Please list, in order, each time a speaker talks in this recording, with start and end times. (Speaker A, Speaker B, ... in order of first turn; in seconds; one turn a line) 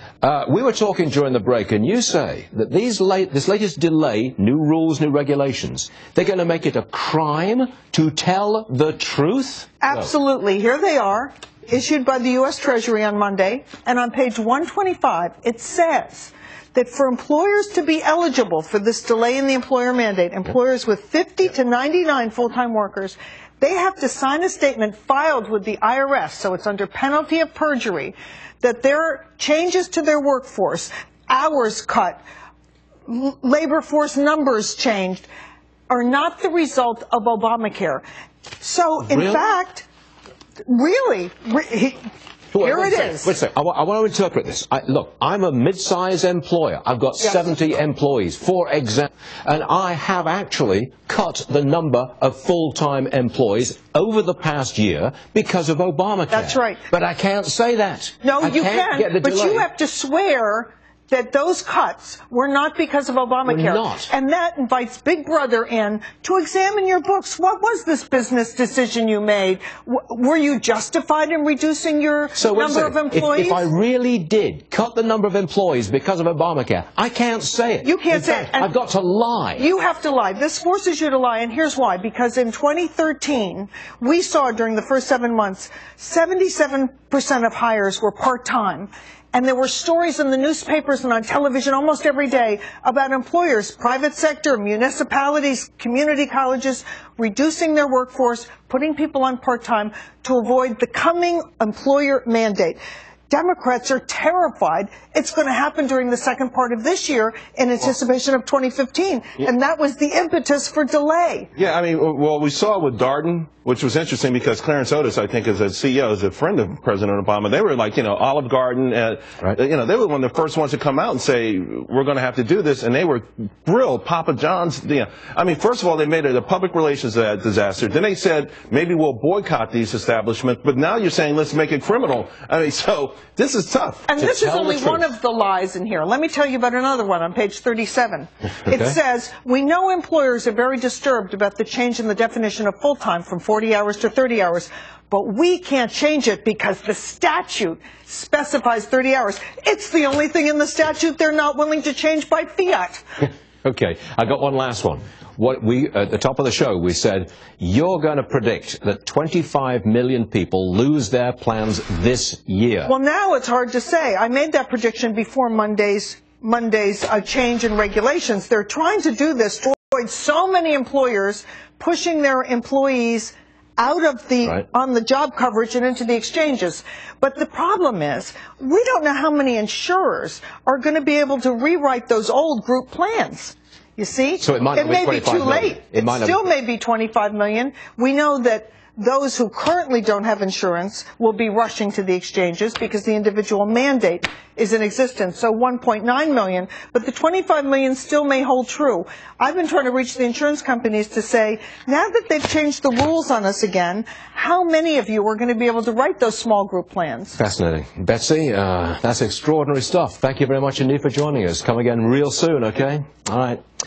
Speaker A: 0.2-10.1
Speaker B: 9.8-32.2
Speaker B: 33.1-35.3
Speaker B: 35.9-38.0
Speaker B: 38.6-39.8
Speaker A: 39.0-39.4
Speaker B: 40.6-42.0
Speaker A: 42.5-59.7
Speaker B: 42.6-43.3
Speaker B: 56.3-56.8
Speaker B: 58.2-73.7
Speaker A: 63.4-64.1
Speaker A: 72.3-79.7
Speaker B: 77.8-78.7
Speaker B: 79.6-111.5
Speaker C: 111.6-134.1
Speaker B: 134.1-153.0
Speaker A: 134.2-135.1
Speaker A: 153.2-162.9
Speaker B: 162.8-207.4
Speaker A: 184.4-186.4
Speaker A: 207.4-213.6